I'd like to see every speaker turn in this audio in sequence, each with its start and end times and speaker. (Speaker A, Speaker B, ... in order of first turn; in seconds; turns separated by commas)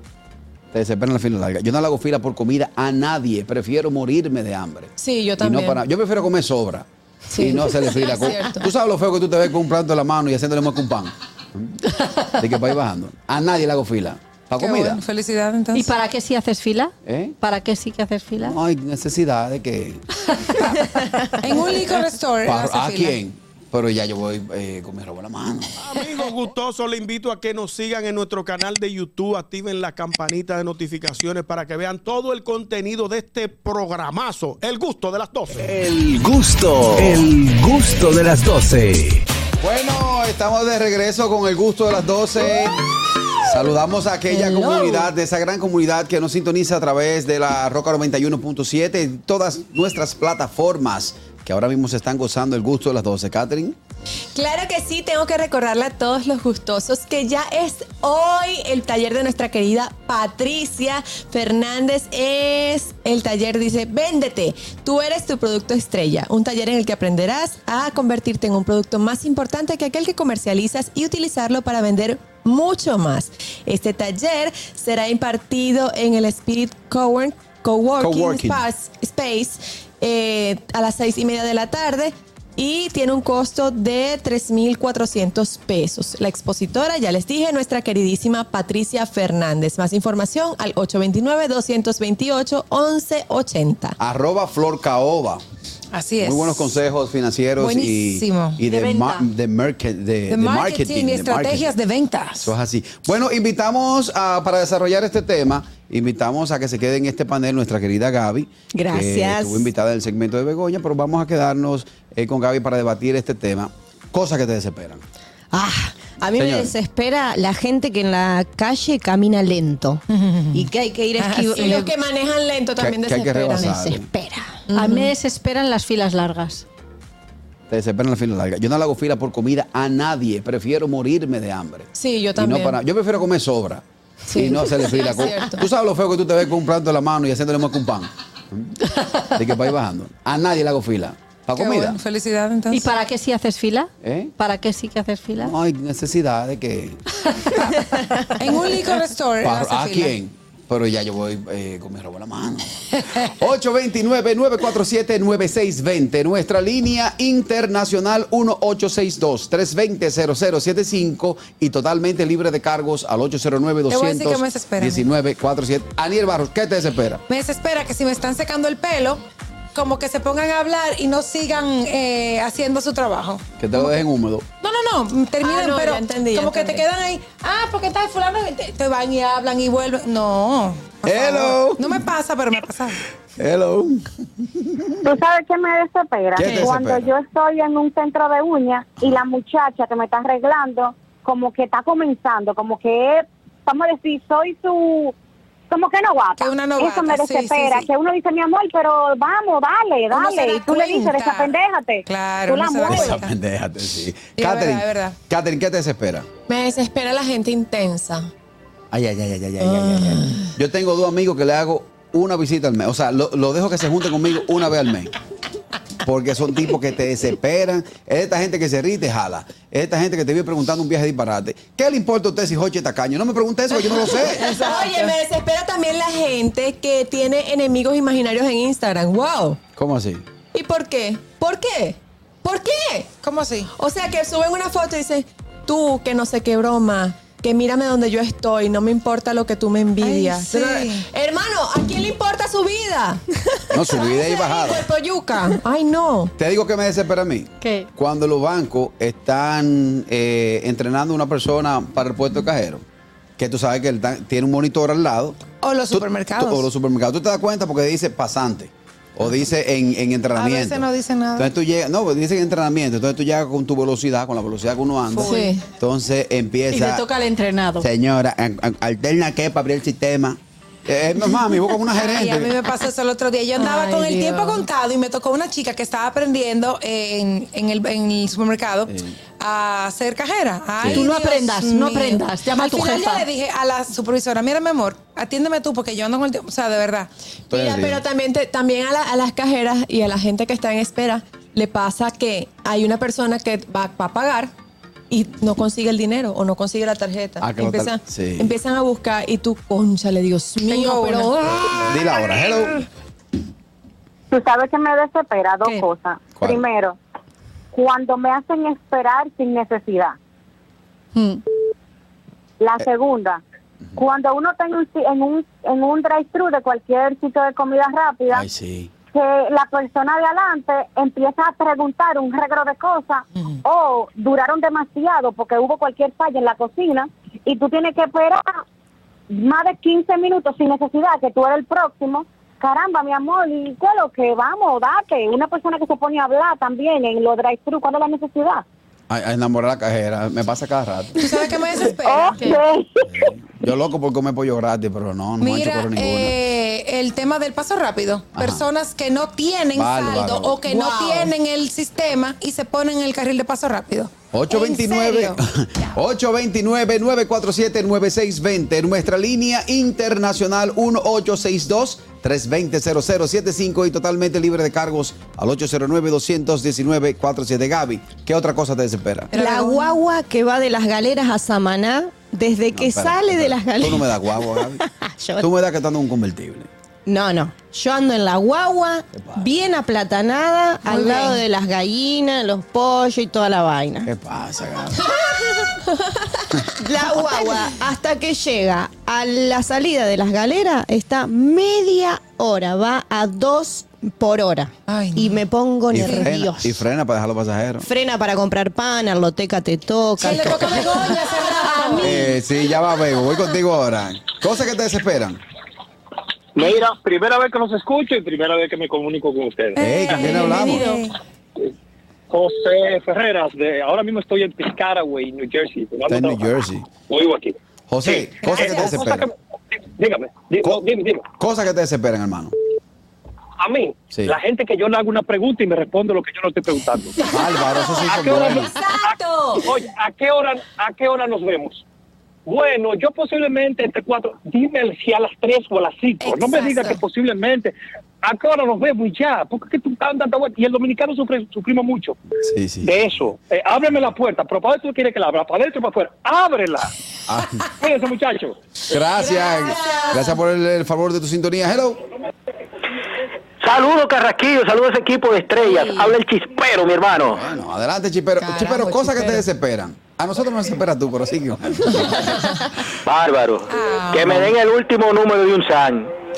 Speaker A: 0.7-6.8, Speaker B: 5.0-5.8, Speaker B: 7.3-8.7, Speaker A: 7.4-15.0, Speaker C: 14.6-15.9, Speaker D: 15.7-18.6, Speaker A: 17.1-17.4, Speaker A: 18.4-20.0, Speaker C: 21.4-23.2, Speaker A: 22.4-25.7, Speaker E: 26.0-35.5, Speaker F: 35.5-39.2, Speaker A: 39.6-42.7, Speaker A: 43.4-53.8, Speaker D: 44.4-45.0, Speaker B: 54.3-94.0, Speaker A: 78.0-78.6, Speaker A: 94.0-95.4, Speaker C: 95.9-96.7, Speaker A: 96.2-101.7, Speaker C: 97.6-98.6, Speaker D: 98.6-99.2, Speaker C: 100.3-102.5, Speaker A: 102.4-115.0, Speaker G: 108.7-109.7, Speaker G: 115.5-120.0, Speaker A: 116.3-116.7, Speaker G: 120.5-121.9, Speaker C: 121.2-121.8, Speaker B: 121.5-123.7, Speaker A: 122.8-124.0, Speaker G: 123.5-124.6, Speaker B: 124.7-125.1, Speaker D: 124.7-126.7, Speaker A: 127.7-133.8, Speaker B: 131.9-132.8, Speaker B: 134.2-135.6, Speaker A: 134.3-142.0, Speaker C: 141.5-142.9, Speaker D: 142.7-145.5, Speaker A: 144.0-144.3, Speaker A: 145.4-147.2, Speaker C: 148.4-150.1, Speaker A: 149.4-167.2, Speaker C: 163.9-165.0, Speaker C: 167.3-173.9, Speaker A: 173.6-174.4, Speaker C: 174.6-183.0, Speaker B: 175.4-176.8, Speaker A: 181.0-182.0, Speaker A: 183.3-185.0, Speaker H: 185.0-195.1, Speaker A: 186.3-187.1, Speaker H: 195.7-203.2, Speaker C: 196.4-197.9, Speaker C: 200.1-201.5, Speaker C: 202.1-203.2, Speaker A: 202.8-206.2, Speaker C: 204.3-205.2, Speaker B: 206.5-208.3, Speaker A: 208.9-215.1, Speaker B: 209.6-210.4, Speaker A: 216.0-224.7, Speaker B: 224.2-229.6, Speaker C: 224.6-225.1, Speaker A: 229.8-230.2, Speaker B: 230.5-233.1, Speaker C: 233.2-233.7, Speaker B: 233.7-246.3, Speaker C: 240.0-241.1, Speaker A: 243.7-244.8, Speaker A: 246.4-252.8, Speaker D: 247.6-247.9, Speaker A: 253.4-267.1, Speaker C: 255.6-256.7, Speaker C: 260.3-261.5, Speaker C: 265.1-265.5, Speaker B: 265.3-265.6, Speaker D: 266.7-267.9, Speaker A: 267.8-272.5, Speaker C: 272.0-287.1, Speaker D: 273.6-274.6, Speaker A: 278.9-279.2, Speaker A: 280.8-281.1, Speaker D: 280.9-283.2, Speaker A: 287.5-288.0, Speaker B: 287.5-294.5, Speaker B: 295.1-301.3, Speaker A: 297.4-298.5, Speaker C: 300.8-301.6, Speaker A: 301.8-302.7, Speaker H: 304.3-307.0, Speaker A: 306.4-306.6, Speaker H: 307.7-310.2, Speaker D: 311.1-311.4, Speaker H: 312.6-313.4, Speaker H: 313.9-318.4, Speaker A: 318.3-318.9, Speaker H: 319.1-328.6, Speaker H: 329.3-338.6, Speaker A: 339.1-341.2, Speaker C: 341.2-342.6, Speaker H: 341.3-343.3, Speaker A: 343.1-346.3, Speaker C: 345.4-355.4, Speaker A: 348.3-348.7, Speaker A: 349.7-350.6, Speaker D: 350.7-351.3, Speaker A: 354.3-369.3, Speaker C: 369.3-370.0, Speaker G: 369.3-375.5, Speaker A: 372.7-374.8, Speaker A: 375.4-376.7, Speaker G: 377.1-384.1, Speaker A: 379.1-379.5, Speaker C: 380.9-381.4, Speaker A: 384.1-385.1, Speaker G: 386.8-396.8, Speaker C: 394.9-395.4, Speaker A: 395.9-397.9, Speaker C: 396.0-396.2, Speaker G: 397.8-401.1, Speaker C: 400.2-402.1, Speaker D: 401.4-402.3, Speaker A: 402.0-405.4, Speaker I: 406.6-410.1, Speaker C: 409.8-411.1, Speaker A: 409.8-410.9, Speaker D: 410.3-411.1, Speaker I: 412.3-416.5, Speaker A: 416.1-416.9, Speaker I: 417.1-421.2, Speaker A: 417.9-419.3, Speaker A: 421.4-422.5, Speaker I: 423.6-427.2, Speaker A: 427.3-428.7, Speaker I: 428.0-431.8, Speaker I: 432.4-442.1, Speaker C: 436.2-437.0, Speaker A: 442.4-442.9, Speaker I: 442.8-446.9, Speaker A: 447.3-447.6, Speaker I: 447.8-448.6, Speaker A: 448.9-452.0, Speaker C: 449.2-450.3, Speaker J: 453.6-457.4, Speaker C: 455.8-456.1, Speaker A: 457.3-462.8, Speaker C: 458.4-459.4, Speaker J: 463.0-466.1, Speaker C: 463.7-464.4